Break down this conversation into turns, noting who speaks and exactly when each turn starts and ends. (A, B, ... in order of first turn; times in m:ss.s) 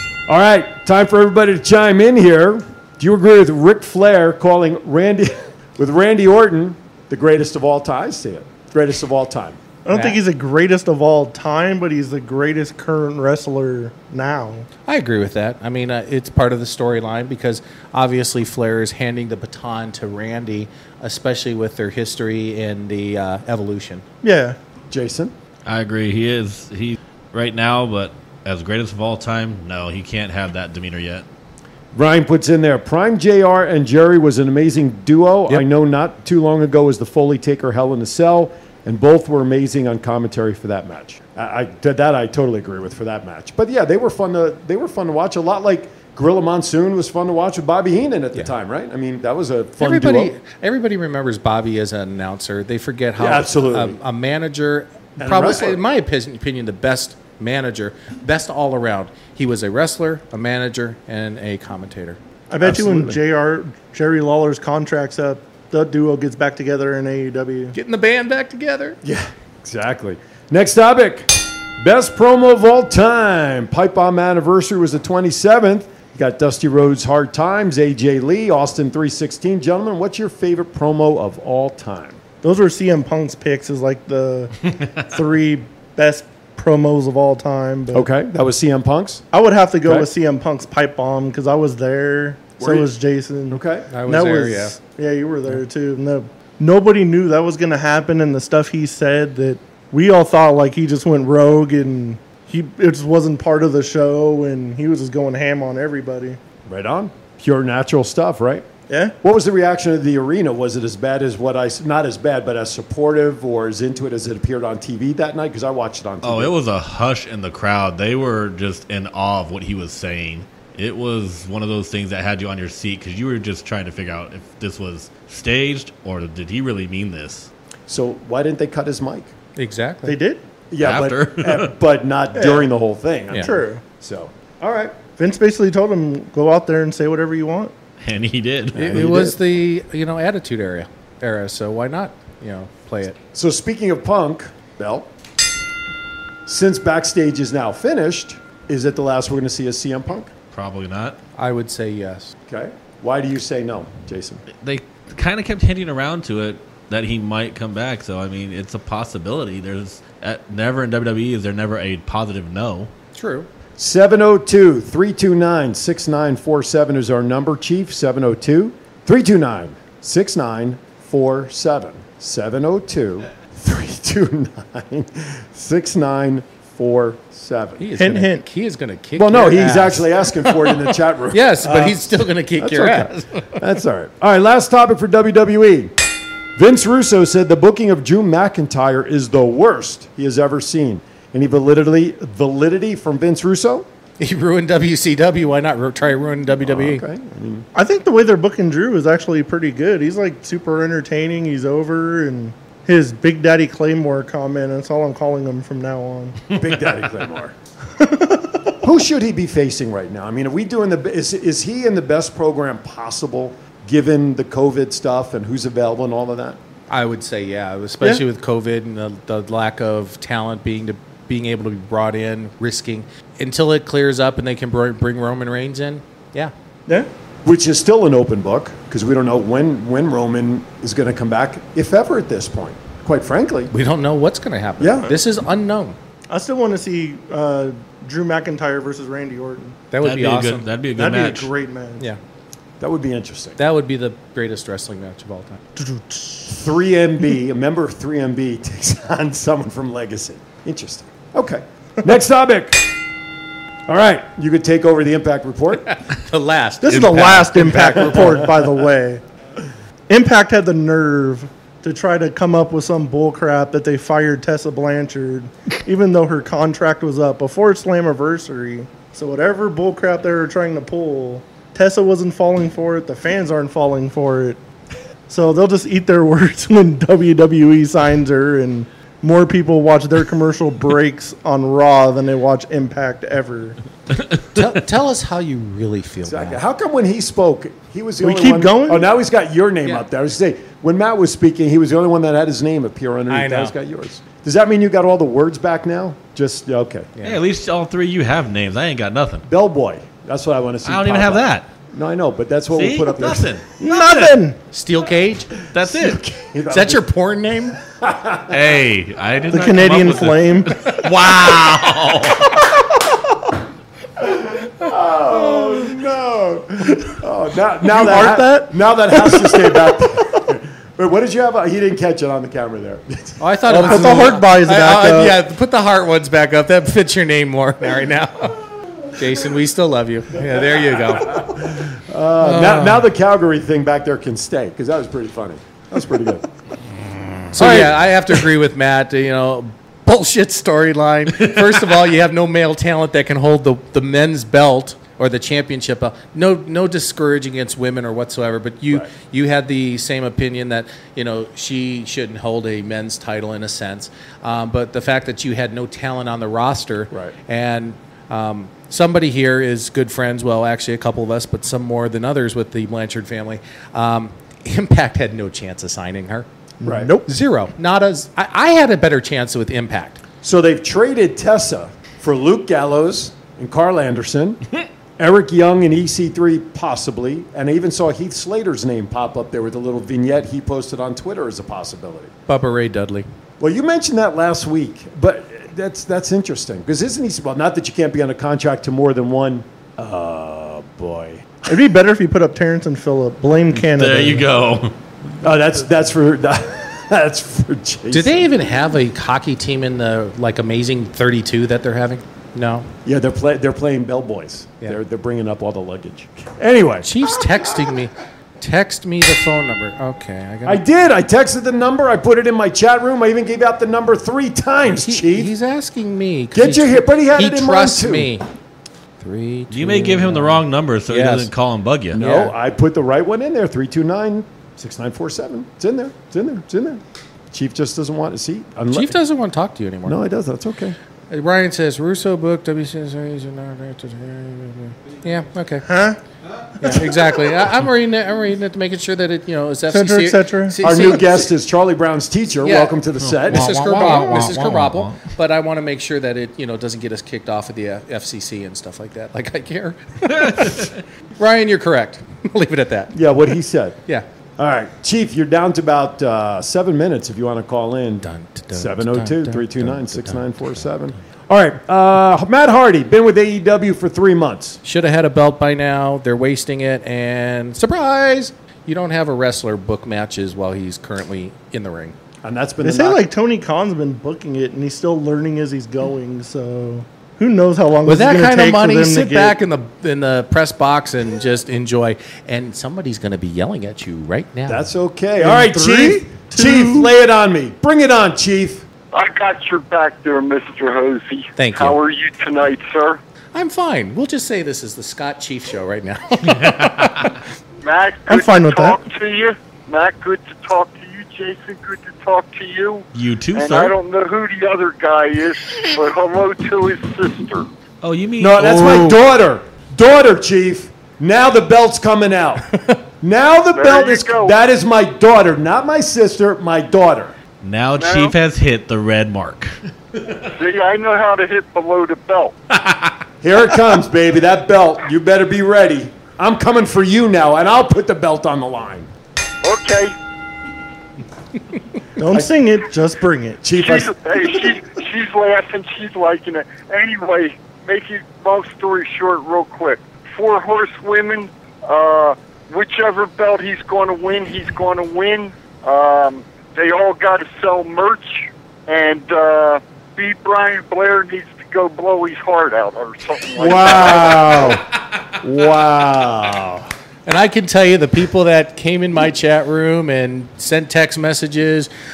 0:00.3-0:09.6 A
0:09.9-0:14.7 B
0:09.9-0:10.2 C
0:14.9-0:24.0 C
0:24.2-0:24.6 B
0:24.9-0:25.3 A
0:25.7-0:31.3 D
0:31.9-0:50.3 A
0:49.8-1:02.2 C
0:53.2-0:54.0 A
0:55.2-0:55.8 A
1:02.5-1:07.8 B
1:02.6-1:03.2 A
1:07.7-1:09.0 C
1:09.0-1:22.2 A
1:22.4-1:28.1 B
1:27.9-1:29.2 A
1:29.3-1:46.4 B
1:32.6-1:32.9 A
1:33.5-1:33.9 A
1:33.9-1:34.8 C
1:46.7-1:48.7 A
1:48.9-1:49.2 B
1:49.2-1:56.5 A
1:56.2-2:07.5 D
2:07.9-2:09.3 A
2:09.6-2:10.2 C
2:10.0-2:10.4 B
2:10.7-2:15.0 A
2:10.8-2:11.7 D
2:12.4-2:12.7 B
2:13.4-2:13.8 B
2:15.2-2:17.7 B
2:18.0-2:19.0 D
2:18.7-2:19.4 A
2:18.8-2:23.2 C
2:23.3-2:25.1 A
2:26.5-2:30.3 A
2:30.5-2:31.2 D
2:31.4-2:32.3 C
2:32.5-2:34.4 A
2:34.6-2:42.9 D
2:43.2-2:43.5 C
2:43.8-2:57.9 A
2:57.8-3:03.6 C
2:58.0-2:58.5 B
2:59.2-3:06.0 A
3:06.6-3:13.9 A
3:14.2-3:17.0 C
3:16.6-3:17.7 A
3:17.8-3:26.4 B
3:26.5-3:27.6 A
3:28.0-3:28.7 B
3:28.8-3:36.6 A
3:36.9-3:46.5 C
3:47.4-3:53.7 A
3:53.7-3:56.0 C
3:54.8-3:55.1 A
3:56.3-3:59.8 B
3:59.9-4:00.7 C
4:00.0-4:01.5 D
4:01.0-4:02.0 B
4:02.8-4:03.6 A
4:03.6-4:05.6 C
4:05.8-4:06.6 B
4:06.5-4:12.9 A
4:13.9-4:15.9 A
4:15.9-4:18.4 C
4:16.8-4:19.2 B
4:20.1-4:34.6 B
4:35.3-4:43.8 B
4:44.5-4:46.6 C
4:46.3-4:57.1 A
4:48.2-4:49.1 B
4:53.3-4:53.7 C
4:57.2-4:59.4 D
4:59.5-5:03.6 A
5:00.8-5:01.7 D
5:02.7-5:04.3 D
5:03.8-5:04.6 B
5:04.7-5:05.5 C
5:05.7-5:06.2 D
5:05.8-5:07.1 A
5:06.7-5:07.8 C
5:07.8-5:08.8 A
5:08.5-5:12.6 D
5:09.5-5:10.8 B
5:14.2-5:24.4 A
5:17.8-5:20.2 B
5:23.4-5:28.6 C
5:23.7-5:25.4 B
5:29.1-5:31.5 C
5:30.7-5:36.5 A
5:32.4-5:33.0 C
5:37.5-6:06.5 C
5:37.5-5:38.5 A
6:06.8-6:07.3 B
6:06.8-6:07.1 A
6:07.3-6:10.2 C
6:10.4-6:14.6 A
6:15.2-6:22.3 A
6:22.5-6:23.3 C
6:23.6-6:31.8 A
6:31.7-6:34.5 B
6:33.7-6:35.0 D
6:35.4-6:38.5 A
6:38.1-6:42.9 C
6:43.0-6:47.1 A
6:47.0-6:50.8 C
6:50.7-6:55.5 A
6:54.9-6:58.5 C
6:56.5-6:58.3 A
6:59.2-7:01.5 C
6:59.7-7:02.2 D
7:02.1-7:09.2 A
7:02.2-7:02.5 C
7:08.9-7:10.2 C
7:10.0-7:11.0 A
7:11.3-7:15.9 C
7:15.8-7:16.2 B
7:16.8-7:21.5 C
7:19.9-7:20.8 B
7:20.8-7:24.6 A
7:22.6-7:33.2 C
7:23.2-7:25.2 D
7:30.4-7:31.0 D
7:33.1-7:34.0 A
7:34.6-7:44.8 A
7:38.2-7:40.9 C
7:44.8-7:52.2 C
7:52.4-7:53.2 A
7:52.8-7:59.6 B
7:58.1-8:04.8 C
8:04.7-8:08.9 A
8:05.4-8:07.1 B
8:09.1-8:13.2 E
8:11.6-8:12.0 C
8:13.5-8:17.3 C
8:16.5-8:17.2 D
8:17.8-8:27.7 E
8:18.3-8:19.0 B
8:23.1-8:23.9 D
8:28.0-8:29.2 D
8:28.4-8:32.7 A
8:33.2-8:37.4 A
8:33.7-8:34.6 E
8:37.6-8:40.5 D
8:38.0-8:38.4 E
8:40.5-8:42.5 E
8:42.7-8:43.2 D
8:43.4-8:49.1 A
8:49.6-8:50.2 E
8:52.2-8:53.8 B
8:53.6-8:54.1 A
8:53.8-9:14.7 E
9:13.6-9:14.8 A
9:15.4-9:16.9 A
9:17.3-9:21.9 C